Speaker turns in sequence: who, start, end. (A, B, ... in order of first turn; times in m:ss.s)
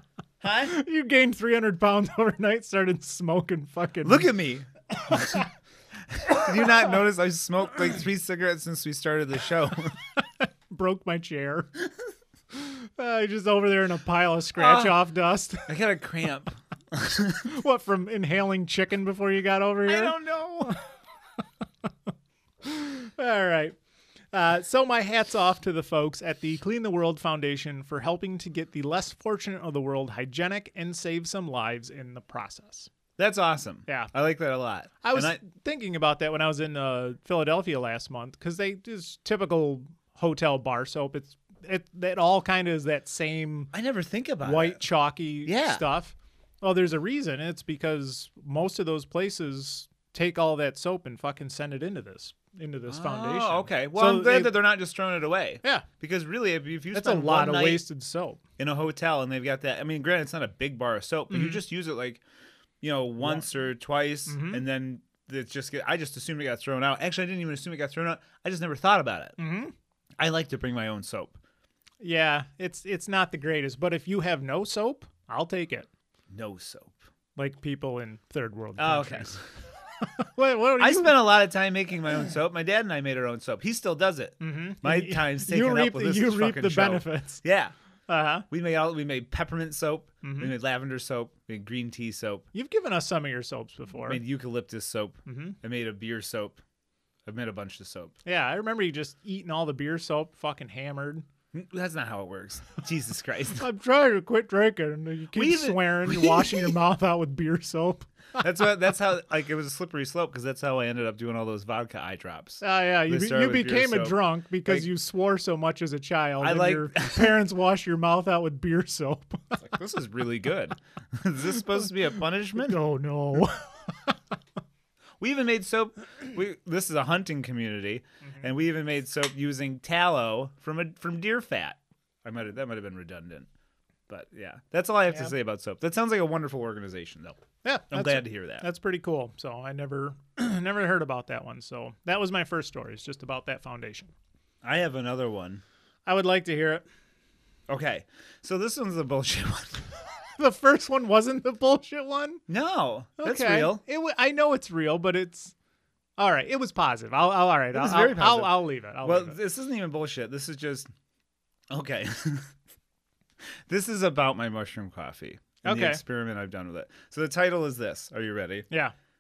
0:00.4-0:00.7 A
0:00.6-0:04.3 B
0:04.0-0:05.5 A
0:06.1-0:10.0 A
0:10.2-0:11.7 B
0:12.5-0:15.7 B
0:14.6-0:14.9 A
0:15.7-0:17.5 A
0:17.4-0:20.8 B
0:19.9-0:20.8 A
0:22.6-0:23.8 B
0:24.3-0:32.9 B
0:33.2-0:35.4 A
0:33.9-0:34.1 B
0:35.0-0:43.7 B
0:43.7-0:44.8 A
0:44.4-0:54.6 B
0:45.5-0:45.8 A
0:52.9-0:57.8 A
0:56.9-0:58.4 B
0:58.6-1:02.2 A
1:01.3-1:01.6 B
1:02.8-1:09.4 A
1:03.2-1:03.5 B
1:04.3-1:04.6 B
1:09.4-1:09.7 B
1:10.2-1:11.4 A
1:12.0-1:15.9 B
1:16.3-1:17.0 A
1:17.4-1:19.4 B
1:18.8-1:19.4 A
1:20.0-1:21.2 B
1:20.8-1:27.7 A
1:24.4-1:27.4 B
1:28.1-1:28.5 B
1:28.5-1:32.5 A
1:30.2-1:30.5 B
1:32.5-1:34.2 B
1:34.1-1:36.6 A
1:35.3-1:35.6 B
1:37.3-1:38.2 A
1:38.2-1:41.2 B
1:41.5-1:43.7 A
1:43.6-1:48.1 B
1:45.3-1:46.8 A
1:48.4-1:54.9 A
1:52.6-1:59.6 B
1:56.4-1:57.4 A
1:59.6-2:02.8 A
2:02.6-2:04.1 B
2:05.2-2:13.5 A
2:14.1-2:17.4 A
2:17.6-2:24.1 B
2:17.9-2:18.6 A
2:24.6-2:25.6 A
2:26.1-2:26.8 B
2:27.7-2:30.0 A
2:30.4-2:32.4 B
2:32.5-2:33.8 A
2:33.2-2:35.5 B
2:36.2-2:39.4 B
2:37.7-2:40.9 A
2:41.7-2:42.5 A
2:43.7-2:48.7 A
2:45.6-2:46.0 B